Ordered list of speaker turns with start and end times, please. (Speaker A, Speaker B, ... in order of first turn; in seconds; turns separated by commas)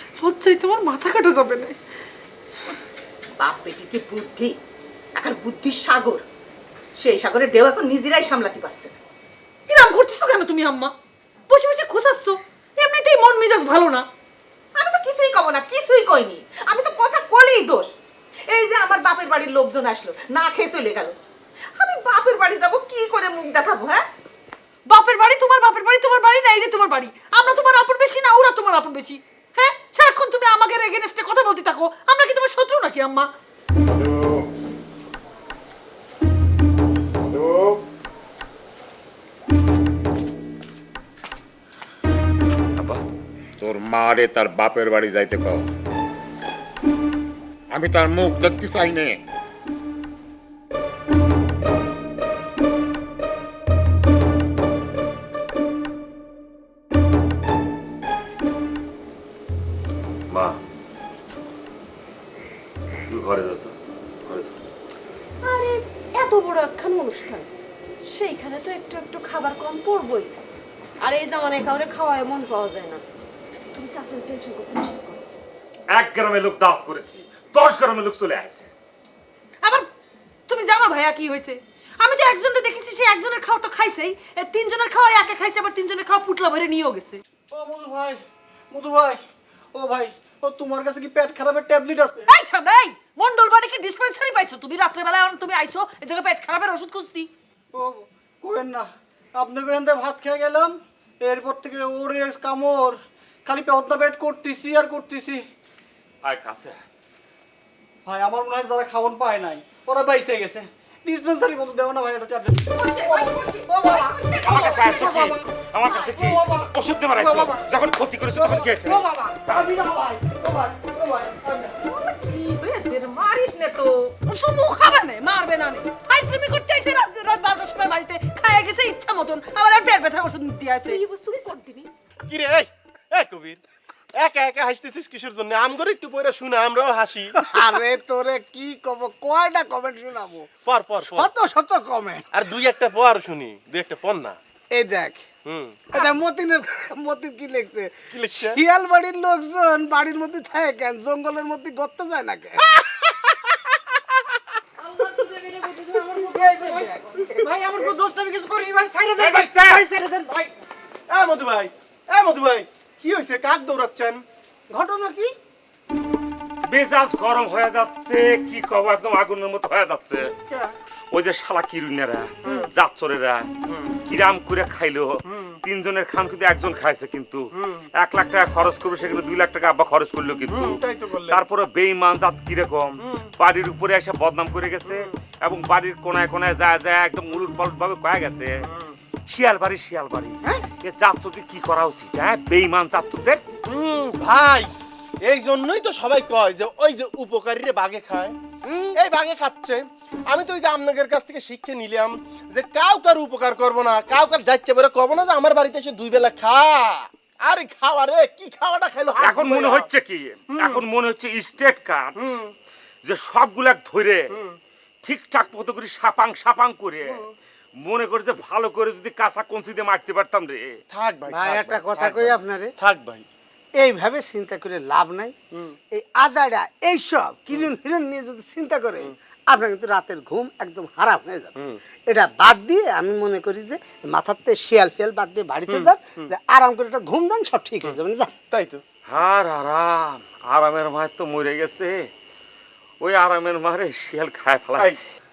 Speaker A: 0.2-1.8, Speaker B: 3.4-4.6, Speaker B: 5.2-6.2, Speaker B: 7.0-8.9, Speaker A: 9.7-10.9, Speaker A: 11.5-14.1, Speaker B: 14.8-17.9, Speaker B: 18.5-21.2, Speaker B: 21.8-24.1, Speaker A: 24.9-33.3, Speaker C: 42.8-43.0, Speaker D: 43.6-45.7, Speaker D: 47.7-49.2, Speaker C: 60.3-60.6, Speaker C: 63.1-63.7, Speaker C: 64.2-64.5, Speaker B: 65.5-67.5, Speaker E: 71.0-72.0, Speaker B: 74.9-75.2, Speaker C: 75.9-78.7, Speaker A: 80.5-87.2, Speaker F: 87.5-89.2, Speaker F: 89.7-92.3, Speaker A: 92.3-97.3, Speaker F: 97.7-105.4, Speaker C: 106.2-106.8, Speaker F: 108.0-115.4, Speaker A: 112.7-115.3, Speaker C: 114.4-119.0, Speaker F: 116.2-116.6, Speaker F: 117.2-117.5, Speaker F: 118.4-121.8, Speaker B: 121.9-124.2, Speaker A: 124.3-131.6, Speaker E: 131.0-131.9, Speaker B: 131.3-131.8, Speaker G: 132.3-133.6, Speaker G: 134.2-137.5, Speaker H: 137.4-140.5, Speaker G: 140.7-141.3, Speaker H: 141.0-142.3, Speaker G: 142.3-144.4, Speaker H: 144.7-145.3, Speaker G: 145.5-145.8, Speaker H: 145.9-152.7, Speaker G: 148.1-148.6, Speaker H: 154.9-160.3, Speaker C: 159.2-159.9, Speaker G: 161.1-164.2, Speaker H: 164.7-165.3, Speaker C: 166.7-170.3, Speaker G: 170.5-170.7, Speaker C: 171.1-173.5, Speaker G: 172.4-172.7, Speaker C: 174.1-188.7, Speaker G: 180.5-181.4, Speaker C: 189.3-193.4, Speaker G: 193.7-194.7, Speaker G: 195.2-198.4, Speaker G: 198.9-209.9, Speaker C: 209.2-212.3, Speaker G: 210.6-210.8, Speaker G: 212.2-212.5, Speaker C: 213.0-214.2, Speaker C: 215.0-217.2, Speaker C: 217.8-220.8, Speaker G: 220.9-223.3, Speaker H: 221.3-222.7, Speaker H: 223.8-225.4, Speaker H: 225.9-231.6, Speaker H: 232.1-238.3, Speaker G: 235.7-236.3, Speaker G: 238.5-238.8, Speaker C: 239.1-242.1, Speaker C: 243.0-245.1